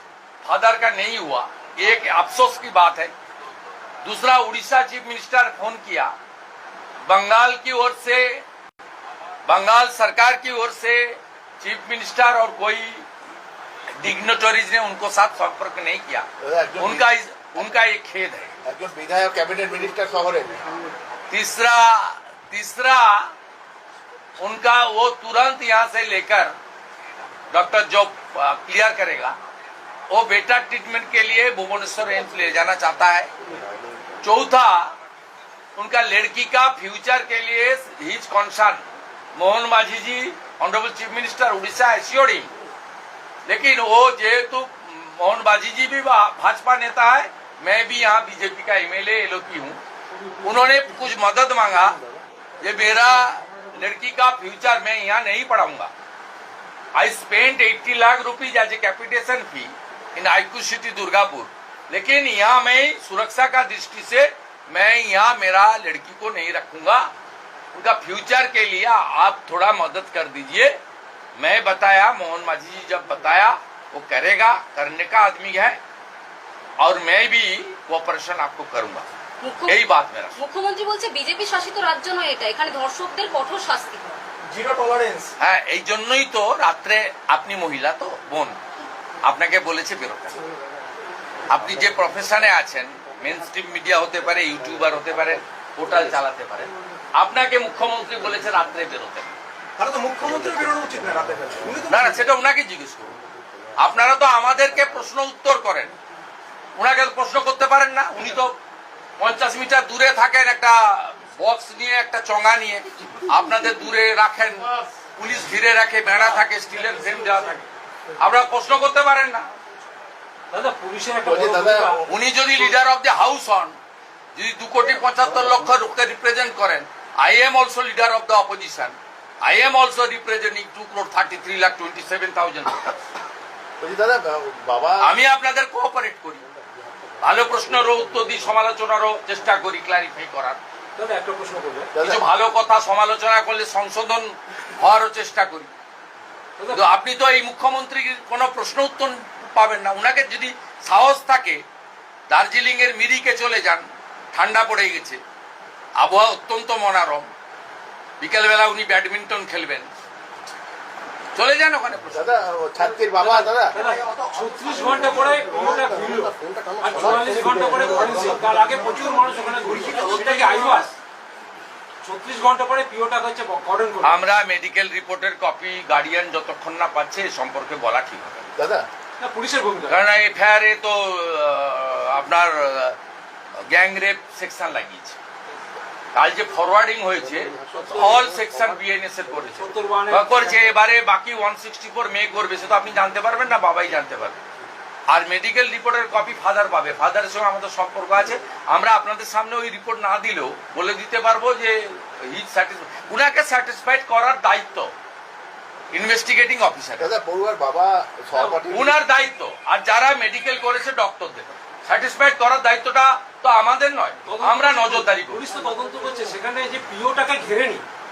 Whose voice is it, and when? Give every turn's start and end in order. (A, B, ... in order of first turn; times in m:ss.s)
0:00.4-0:03.1 A
0:04.0-0:06.1 A
0:07.1-0:08.4 A
0:09.5-0:13.1 A
0:14.0-0:16.3 A
0:16.4-0:17.7 B
0:16.8-0:18.6 A
0:18.6-0:20.5 B
0:21.3-0:23.3 A
0:24.4-0:26.5 A
0:27.5-0:29.4 A
0:30.1-0:33.3 A
0:34.2-0:34.9 A
0:35.8-0:38.8 A
0:39.4-0:42.5 A
0:43.4-0:49.8 A
0:50.2-0:51.0 C
0:50.4-0:52.0 A
0:52.6-0:55.9 A
0:57.0-1:07.1 A
1:07.7-1:10.7 A
1:11.4-1:15.8 A
1:16.8-1:19.0 A
1:19.4-1:19.8 D
1:19.7-1:20.4 A
1:20.4-1:24.1 D
1:24.5-1:25.3 E
1:25.4-1:28.6 A
1:29.2-1:30.4 A
1:31.5-1:39.3 A
1:39.8-1:42.3 E
1:41.9-1:43.1 A
1:43.8-1:45.9 A
1:46.8-1:48.5 A
1:49.2-1:57.6 A
1:56.9-1:57.2 C
1:58.2-1:59.5 A
2:00.5-2:02.0 C
2:01.2-2:02.1 B
2:02.1-2:03.8 A
2:04.4-2:12.9 A
2:13.8-2:15.1 B
2:15.0-2:16.4 A
2:17.2-2:20.6 A
2:21.0-2:21.9 C
2:21.9-2:22.2 B
2:22.0-2:25.7 A
2:26.7-2:31.6 A
2:32.3-2:35.2 A
2:36.0-2:37.3 A
2:38.2-2:39.9 A
2:41.3-2:42.3 A
2:42.1-2:43.8 B
2:43.2-2:50.9 C
2:43.7-2:46.2 E
2:46.2-2:47.8 B
2:46.9-2:50.3 E
2:50.0-2:50.9 A
2:52.0-2:54.2 C
2:54.0-2:58.5 A
2:58.6-2:58.8 B
2:59.2-3:00.0 C
2:59.9-3:03.0 A
3:03.7-3:05.2 A
3:06.1-3:14.4 A
3:07.4-3:08.7 B
3:09.6-3:10.7 C
3:15.1-3:24.9 A
3:25.9-3:27.1 A
3:27.0-3:29.0 B
3:28.3-3:28.6 C
3:28.7-3:35.4 A
3:34.3-3:37.8 C